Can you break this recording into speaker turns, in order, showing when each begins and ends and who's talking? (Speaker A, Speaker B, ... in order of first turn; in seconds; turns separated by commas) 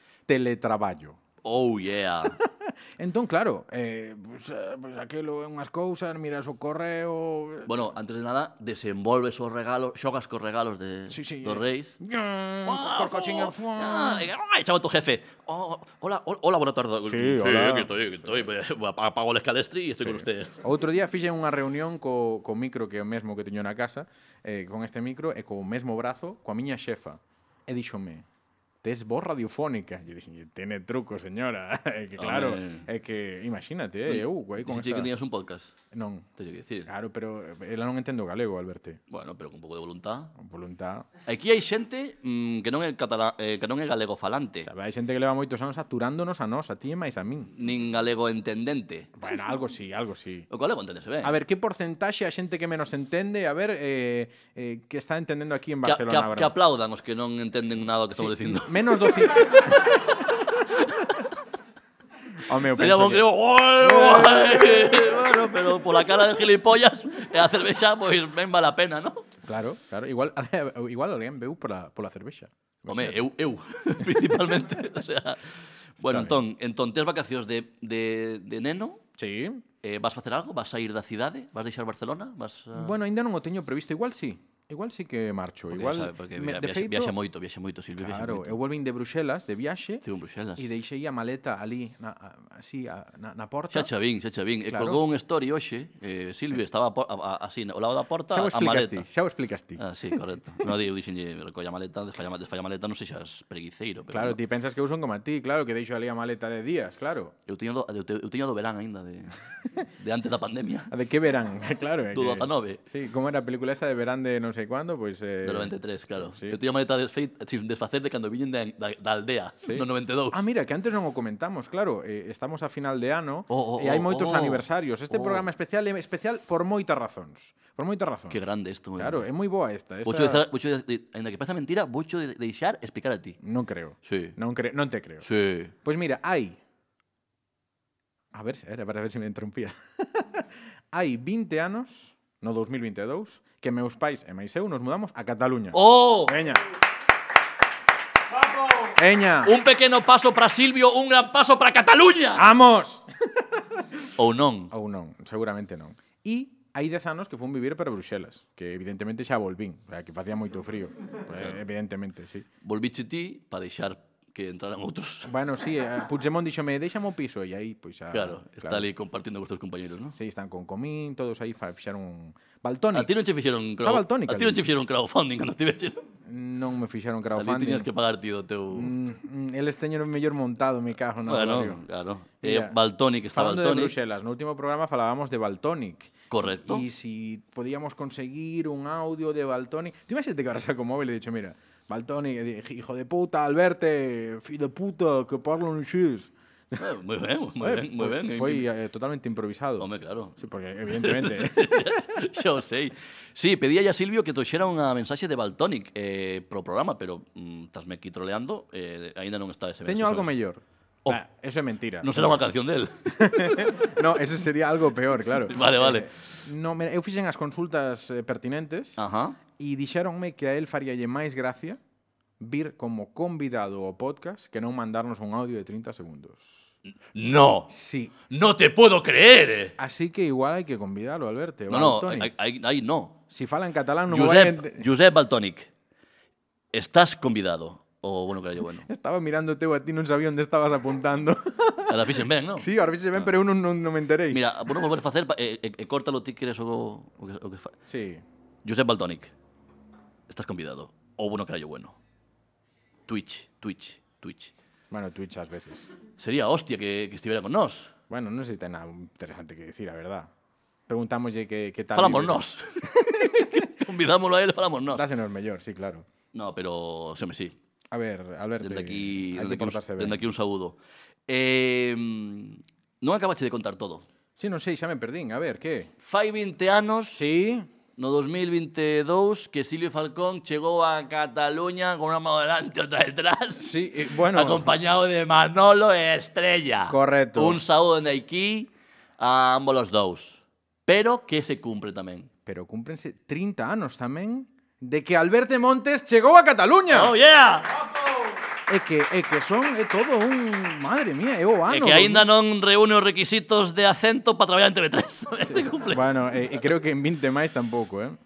Speaker A: 0.3-1.2, Speaker B: 1.4-2.4, Speaker A: 2.4-7.8, Speaker B: 7.7-12.0, Speaker A: 11.1-14.3, Speaker B: 12.6-20.6, Speaker A: 17.0-18.4, Speaker A: 20.0-28.2, Speaker A: 28.8-35.1, Speaker B: 32.2-32.9, Speaker B: 34.1-35.7, Speaker A: 35.9-36.3, Speaker B: 36.4-36.9, Speaker A: 36.9-39.0, Speaker B: 39.1-40.3, Speaker A: 40.4-41.1, Speaker B: 41.2-44.7, Speaker A: 44.6-47.5, Speaker B: 47.5-49.1, Speaker A: 49.1-50.5, Speaker B: 50.5-51.3, Speaker A: 51.2-56.5, Speaker B: 55.8-59.8, Speaker A: 58.1-60.4, Speaker A: 62.5-65.1, Speaker B: 62.6-69.3, Speaker A: 69.4-73.2, Speaker B: 72.9-79.0, Speaker A: 76.1-76.4, Speaker A: 79.2-79.6, Speaker B: 79.8-82.9, Speaker A: 82.7-87.2, Speaker B: 85.7-88.6, Speaker A: 88.0-90.0, Speaker B: 90.0-90.7, Speaker A: 90.5-93.9, Speaker B: 93.7-99.0, Speaker A: 94.7-95.0, Speaker A: 98.3-100.7, Speaker B: 99.8-104.4, Speaker A: 104.1-107.3, Speaker B: 107.5-109.4, Speaker B: 109.9-110.9, Speaker A: 110.9-116.6, Speaker B: 112.1-112.8, Speaker B: 115.4-120.4, Speaker A: 119.6-128.4, Speaker B: 123.5-125.5, Speaker B: 128.3-129.3, Speaker A: 129.0-130.4, Speaker B: 130.0-133.4, Speaker A: 133.4-135.2, Speaker B: 134.0-134.3, Speaker B: 135.2-135.7, Speaker A: 135.8-136.6, Speaker A: 138.3-146.6, Speaker B: 145.7-146.4, Speaker A: 148.8-149.6, Speaker B: 149.4-152.4, Speaker A: 152.3-153.6, Speaker B: 154.2-154.7, Speaker A: 154.7-162.4, Speaker B: 162.6-165.3, Speaker A: 165.2-168.8, Speaker B: 168.1-170.1, Speaker A: 170.1-173.1, Speaker B: 172.9-176.1, Speaker A: 173.8-174.7, Speaker A: 176.2-177.9, Speaker B: 177.3-178.9, Speaker A: 178.7-181.8, Speaker B: 181.2-183.9, Speaker A: 182.4-182.8, Speaker A: 183.3-196.8, Speaker B: 186.3-186.8, Speaker B: 196.8-198.7, Speaker A: 197.6-202.1, Speaker B: 199.8-200.4, Speaker B: 200.9-210.3, Speaker A: 209.8-212.4, Speaker B: 212.0-213.9, Speaker A: 213.1-219.0, Speaker B: 215.5-216.1, Speaker B: 219.0-219.4, Speaker A: 219.6-221.8, Speaker A: 222.4-226.7, Speaker B: 227.1-227.7, Speaker A: 227.7-228.1, Speaker B: 228.3-229.8, Speaker A: 229.8-232.3, Speaker B: 231.7-233.2, Speaker A: 233.3-234.9, Speaker B: 234.1-235.7, Speaker B: 236.7-238.9, Speaker A: 238.8-244.4, Speaker B: 241.9-242.7, Speaker B: 244.3-247.7, Speaker A: 247.9-248.2, Speaker B: 248.6-249.3, Speaker B: 250.3-252.0, Speaker B: 253.1-254.5, Speaker A: 254.9-255.9, Speaker B: 256.2-257.9, Speaker A: 258.1-260.3, Speaker A: 260.9-262.4, Speaker B: 261.9-265.0, Speaker A: 262.9-263.5, Speaker A: 264.9-266.1, Speaker B: 266.3-267.6, Speaker A: 267.9-270.2, Speaker B: 268.6-274.0, Speaker A: 274.4-275.9, Speaker B: 276.0-277.3, Speaker A: 277.1-277.7, Speaker B: 278.0-292.3, Speaker A: 283.6-284.7, Speaker A: 286.9-287.6, Speaker A: 292.4-297.1, Speaker B: 296.9-297.8, Speaker A: 298.7-302.3, Speaker B: 301.7-306.1, Speaker A: 305.4-308.2